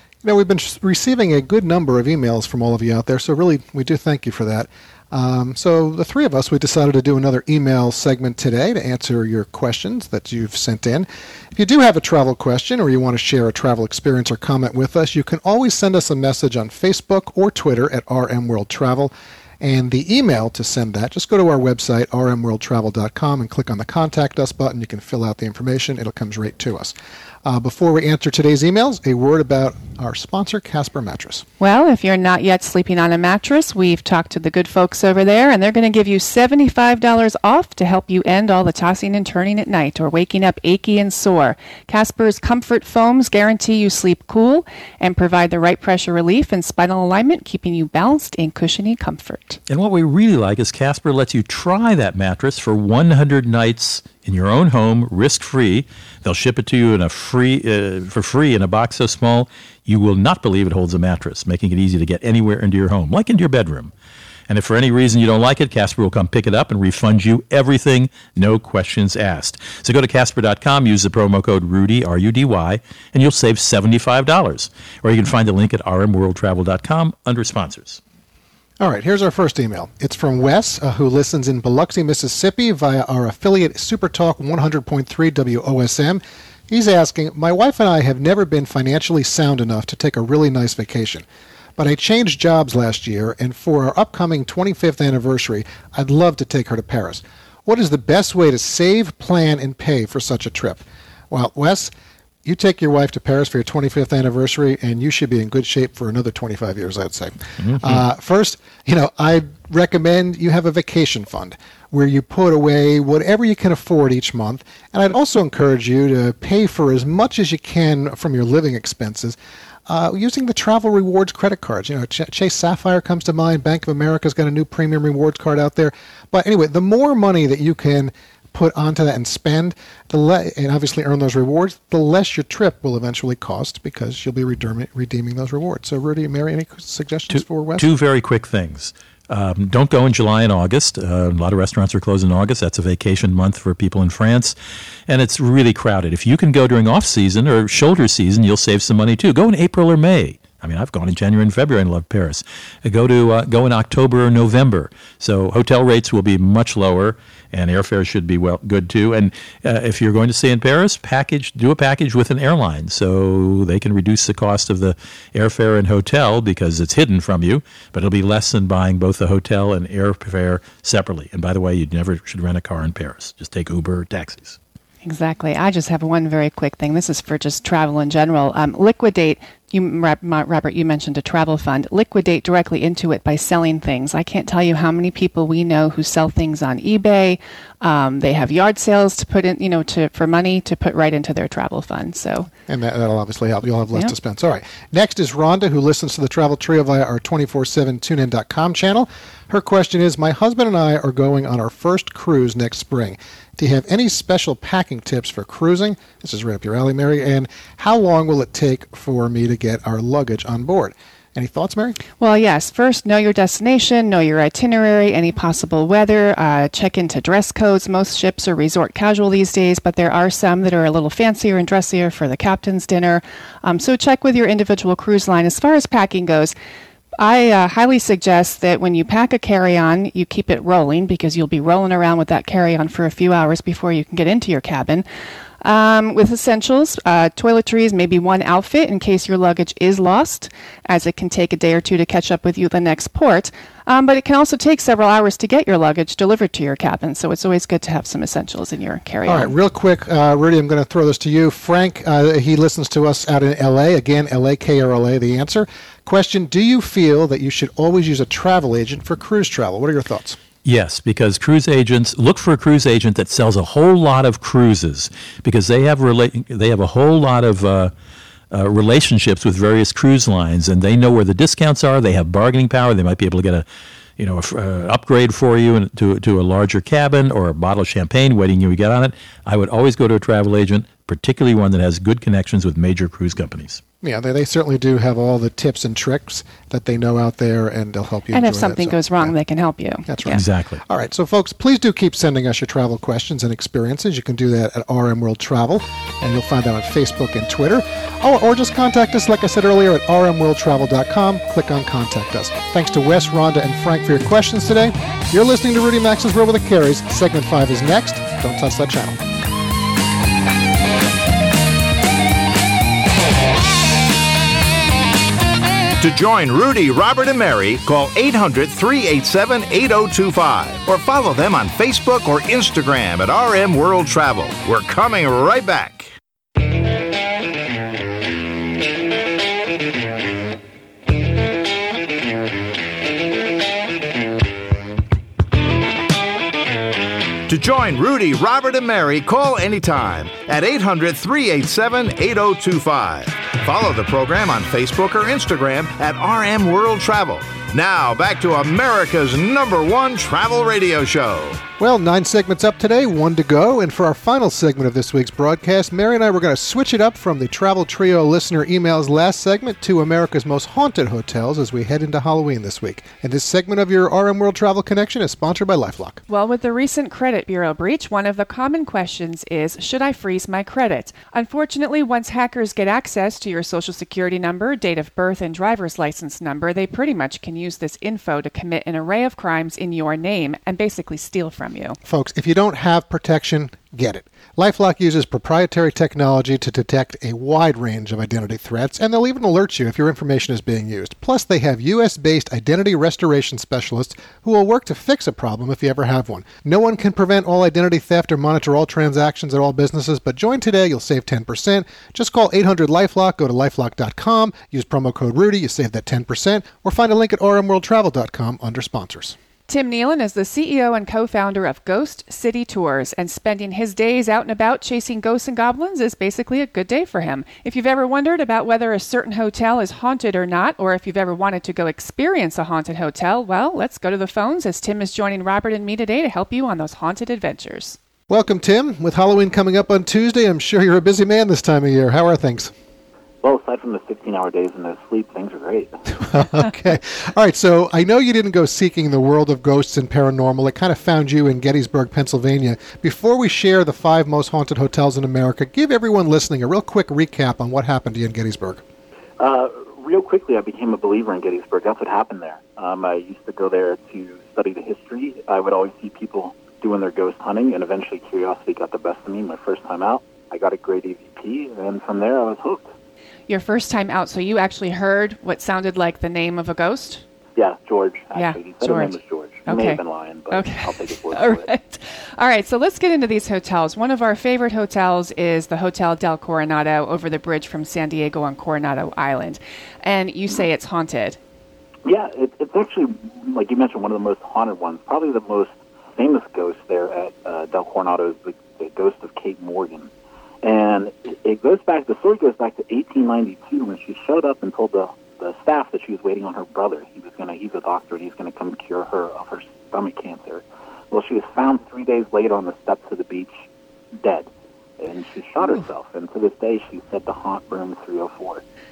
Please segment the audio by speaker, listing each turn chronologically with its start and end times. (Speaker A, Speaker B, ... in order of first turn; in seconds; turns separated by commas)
Speaker A: 0.2-31.4, Speaker B: 31.6-49.6, Speaker C: 49.7-63.9, Speaker C: 64.5-78.0, Speaker A: 78.8-91.2, Speaker A: 91.8-101.9, Speaker A: 102.4-137.9, Speaker C: 107.6-108.0, Speaker C: 137.3-144.6, Speaker C: 145.1-174.6, Speaker B: 175.0-192.5, Speaker A: 192.7-212.0, Speaker B: 212.2-226.5, Speaker B: 227.2-235.1, Speaker B: 235.6-249.5, Speaker A: 249.2-260.4, Speaker C: 260.6-267.9, Speaker C: 268.5-273.6, Speaker C: 274.2-283.8, Speaker A: 284.0-289.3, Speaker B: 288.3-290.4, Speaker A: 290.1-309.2, Speaker C: 290.3-290.8, Speaker D: 316.0-326.1, Speaker D: 337.5-351.6, Speaker A: 351.8-366.2, Speaker B: 366.3-382.0, Speaker A: 382.0-409.4, Speaker B: 409.7-428.0, Speaker A: 428.3-432.7, Speaker E: 433.4-436.3, Speaker A: 436.3-448.8, Speaker E: 449.4-462.9, Speaker B: 463.5-467.2, Speaker E: 467.6-471.7, Speaker B: 468.3-481.4, Speaker E: 482.0-490.1, Speaker E: 490.6-503.5, Speaker E: 504.2-508.6